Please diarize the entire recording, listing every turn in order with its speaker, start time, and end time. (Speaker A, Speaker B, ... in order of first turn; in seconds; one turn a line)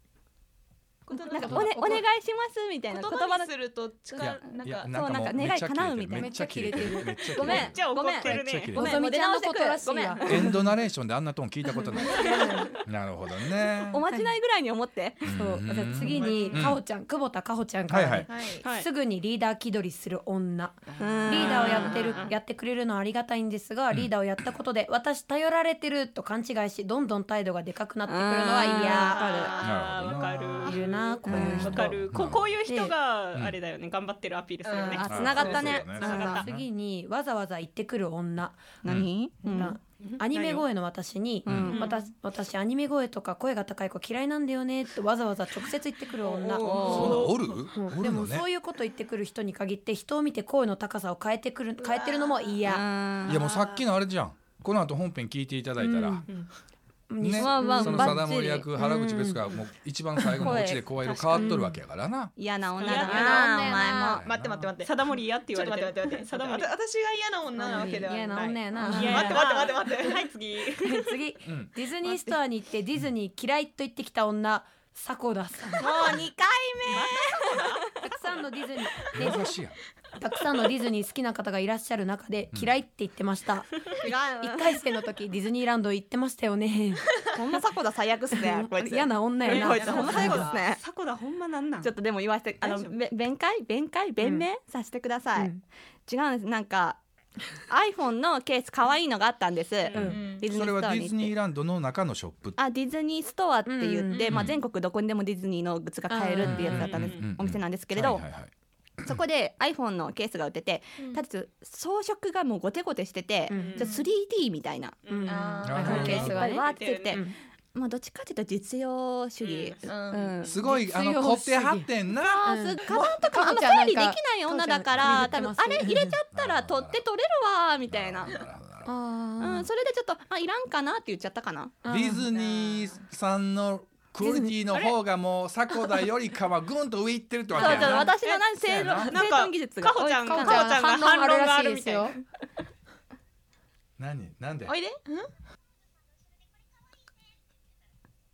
Speaker A: 1.1-2.0
Speaker B: 1.3-3.5
Speaker C: 1.3-2.0
Speaker D: 1.4-1.8
Speaker A: 2.8-5.3
Speaker B: 4.2-6.4
Speaker D: 4.2-9.0
Speaker C: 6.1-7.6
Speaker B: 7.3-10.6
Speaker E: 7.4-8.8
Speaker C: 8.7-10.6
Speaker D: 10.2-14.0
Speaker C: 11.7-12.7
Speaker B: 13.9-15.3
Speaker D: 15.2-16.8
Speaker C: 15.3-29.5
Speaker A: 16.1-16.6
Speaker D: 17.9-18.3
Speaker A: 18.3-18.6
Speaker E: 18.6-18.9
Speaker B: 21.0-22.3
Speaker E: 21.4-22.3
Speaker B: 28.1-29.7
Speaker E: 28.6-36.5
Speaker D: 29.6-30.8
Speaker C: 30.6-32.0
Speaker B: 31.2-31.8
Speaker D: 31.3-32.5
Speaker C: 32.6-32.9
Speaker A: 34.6-36.1
Speaker B: 35.0-36.0
Speaker D: 35.0-36.7
Speaker C: 36.0-38.6
Speaker B: 38.8-39.8
Speaker E: 39.5-40.6
Speaker C: 39.5-52.8
Speaker D: 41.5-41.8
Speaker B: 41.5-41.9
Speaker E: 41.7-42.0
Speaker B: 46.2-47.3
Speaker E: 46.7-47.3
Speaker D: 46.8-48.5
Speaker A: 51.9-52.4
Speaker B: 52.6-53.5
Speaker D: 53.2-56.2
Speaker E: 53.4-53.8
Speaker C: 55.8-56.2
Speaker C: 57.1-59.4
Speaker D: 57.2-62.3
Speaker B: 57.4-58.7
Speaker C: 60.2-60.6
Speaker B: 60.4-60.9
Speaker E: 61.0-61.6
Speaker C: 61.4-61.7
Speaker B: 62.4-64.2
Speaker E: 62.7-63.8
Speaker C: 62.9-64.2
Speaker D: 64.1-64.7
Speaker A: 64.2-70.2
Speaker E: 64.8-66.6
Speaker C: 67.5-69.4
Speaker E: 68.8-71.1
Speaker B: 68.8-69.1
Speaker C: 70.8-76.1
Speaker D: 71.5-71.7
Speaker B: 75.8-77.8
Speaker E: 76.9-77.8
Speaker C: 78.0-79.5
Speaker D: 79.1-79.8
Speaker C: 80.2-87.2
Speaker B: 84.0-84.8
Speaker B: 87.3-90.8
Speaker C: 88.3-90.5
Speaker E: 89.4-91.9
Speaker A: 89.8-90.5
Speaker B: 91.8-95.5
Speaker E: 92.6-93.0
Speaker C: 95.3-95.6
Speaker B: 96.1-97.0
Speaker B: 97.7-101.3
Speaker E: 99.8-100.2
Speaker D: 100.0-102.6
Speaker A: 100.1-100.4
Speaker B: 102.6-108.2
Speaker C: 103.7-104.5
Speaker D: 104.3-104.6
Speaker C: 106.1-106.9
Speaker D: 106.4-108.5
Speaker E: 106.6-107.2
Speaker B: 109.0-115.1
Speaker A: 111.0-111.2
Speaker C: 113.5-113.8
Speaker A: 113.5-114.1
Speaker E: 113.5-114.0
Speaker E: 115.0-117.2
Speaker C: 115.1-117.3
Speaker A: 115.3-115.9
Speaker D: 115.6-116.4
Speaker B: 115.8-120.6
Speaker E: 119.4-119.8
Speaker A: 119.8-120.3
Speaker D: 120.4-123.0
Speaker C: 120.6-126.2
Speaker B: 122.1-128.4
Speaker D: 126.3-127.0
Speaker D: 127.9-128.9
Speaker C: 128.8-129.7
Speaker B: 129.4-131.8
Speaker C: 131.8-132.3
Speaker D: 131.9-139.2
Speaker C: 134.2-134.5
Speaker B: 137.5-140.7
Speaker E: 137.5-138.4
Speaker E: 139.0-142.1
Speaker C: 140.2-142.2
Speaker D: 144.0-144.7
Speaker A: 144.7-145.3